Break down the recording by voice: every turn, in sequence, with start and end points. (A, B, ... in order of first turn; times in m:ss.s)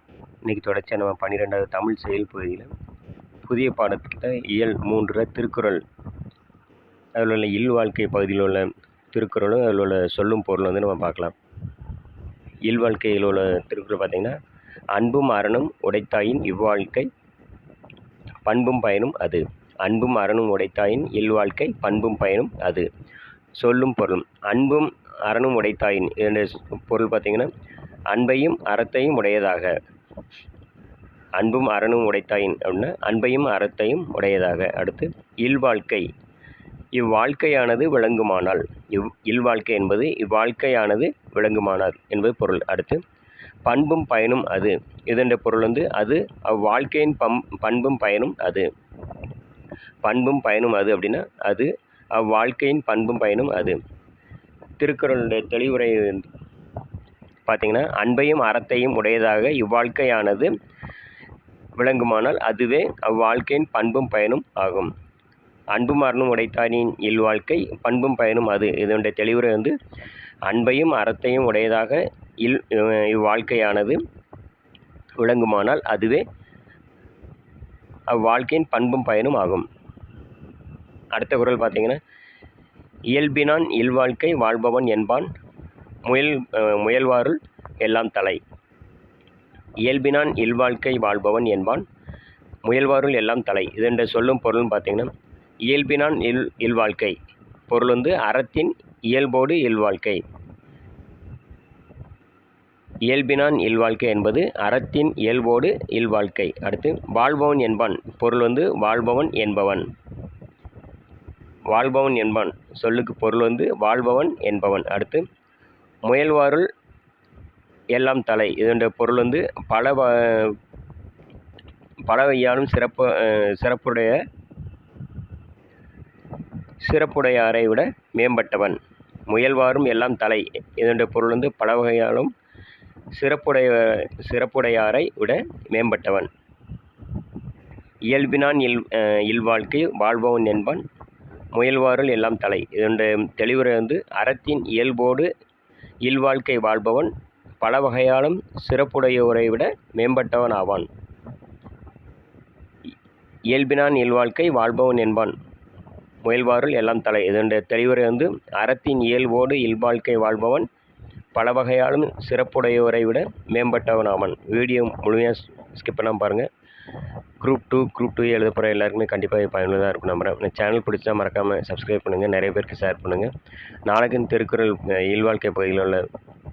0:00.4-0:02.7 A
0:03.4-0:05.8 A
0:07.2-0:11.3 A
0:12.6-0:14.4 A
0:14.9-0:17.1 A
0:18.4-0:22.9 A
0:23.6-0:27.5 A
0:28.1-0:29.8 A
0:31.4-0:36.0 A
0:36.9-0:43.0 A
0:43.6-0:48.7 A
0:50.0-0:53.8 A
0:54.8-0:56.3 A
0:57.4-1:00.5 A
1:01.8-1:04.9 A
1:05.7-1:09.7 A
1:10.4-1:14.0 A
1:15.2-1:16.2 A
1:18.1-1:19.6 A
1:21.1-1:22.0 A
1:23.1-1:25.3 A
1:26.0-1:28.4 A
1:29.8-1:31.8 A
1:32.6-1:35.1 A
1:35.7-1:37.2 A
1:37.7-1:40.2 A
1:43.1-1:49.9 A
1:51.7-1:55.2 A
1:56.0-1:56.7 A
1:57.9-2:00.6 A
2:02.1-2:04.2 A
2:06.8-2:12.3 A
2:13.1-2:16.3 A
2:18.1-2:20.8 A
2:21.5-2:25.3 A
2:26.0-2:30.9 A
2:33.5-2:35.3 A
2:36.2-2:40.7 A
2:41.3-2:46.5 A
2:47.4-2:53.3 A
2:53.8-2:56.0 A